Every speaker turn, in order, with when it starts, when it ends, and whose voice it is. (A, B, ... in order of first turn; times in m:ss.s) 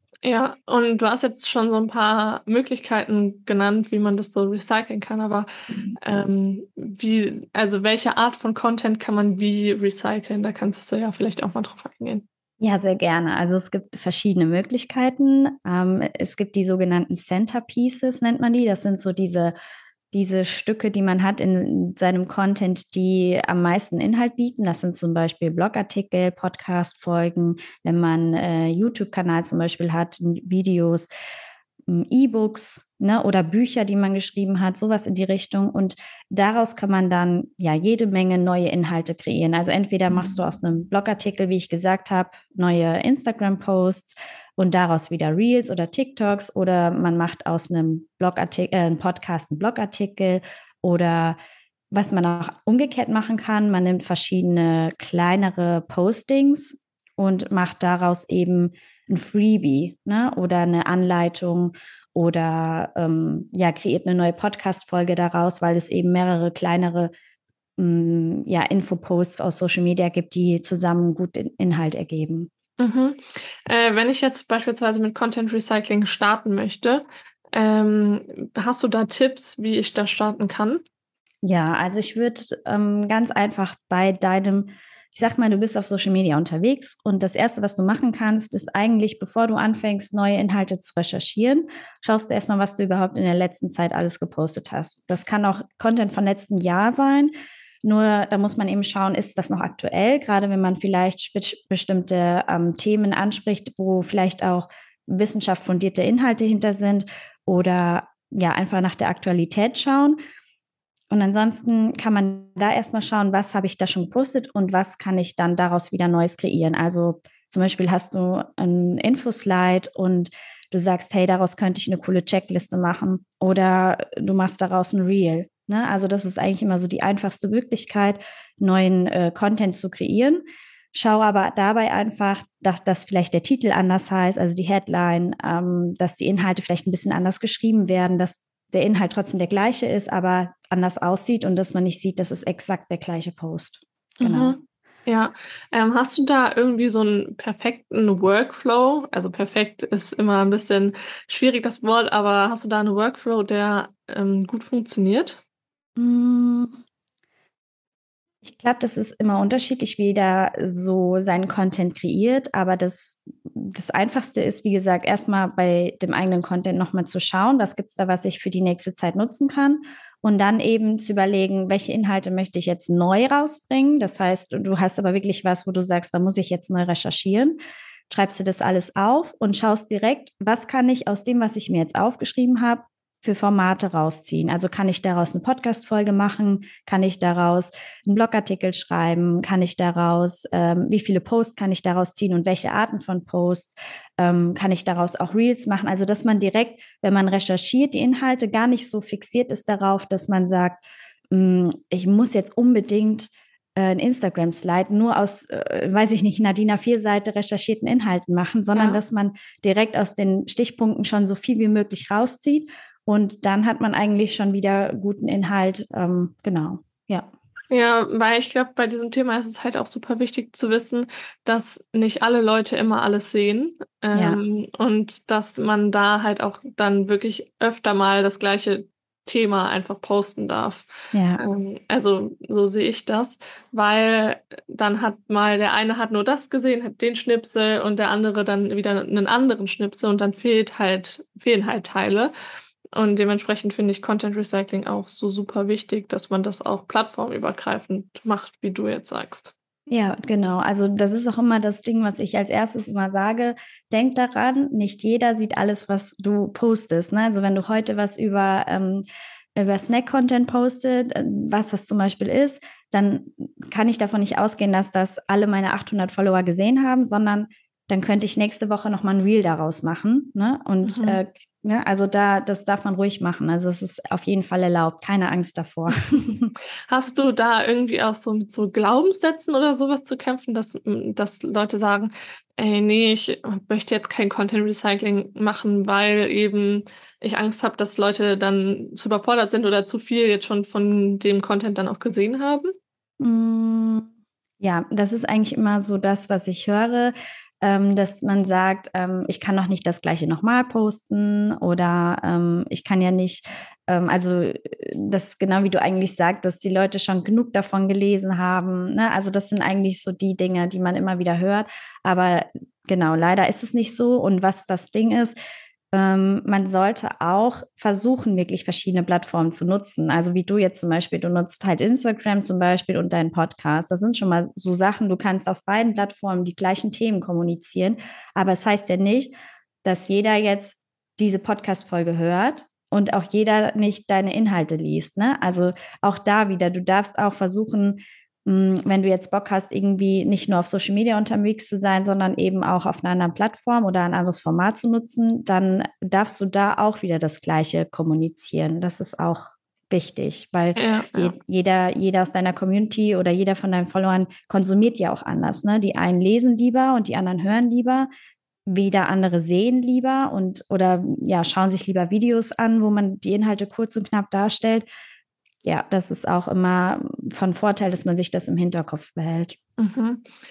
0:00.2-0:05.5 A
0:06.0-0:12.2 A
0:12.6-0:19.5 B
0:20.1-0:31.1 B
0:31.9-0:51.4 B
0:51.9-1:07.1 B
1:07.8-1:12.5 B
1:12.8-1:20.8 A
1:21.4-1:37.3 B
1:37.8-1:50.2 B
1:51.1-2:10.4 B
2:10.9-2:24.6 B
2:24.2-2:35.4 A
2:36.0-2:36.8 B
2:38.4-2:57.6 B
2:58.1-3:37.3 B
3:28.8-3:29.0 A
3:37.7-3:50.9 A
3:44.1-3:44.4 B
3:51.1-3:51.4 B
3:51.4-4:02.3 A
4:02.9-4:09.5 A
4:09.9-4:36.5 B
4:30.8-4:31.2 A
4:36.9-4:52.7 A
4:53.2-4:54.1 B
4:54.6-5:15.4 B
5:15.9-5:29.3 B
5:29.8-5:58.1 B
5:50.8-5:51.4 A
5:58.7-6:04.9 B
6:05.6-6:09.6 B
6:09.8-6:10.2 A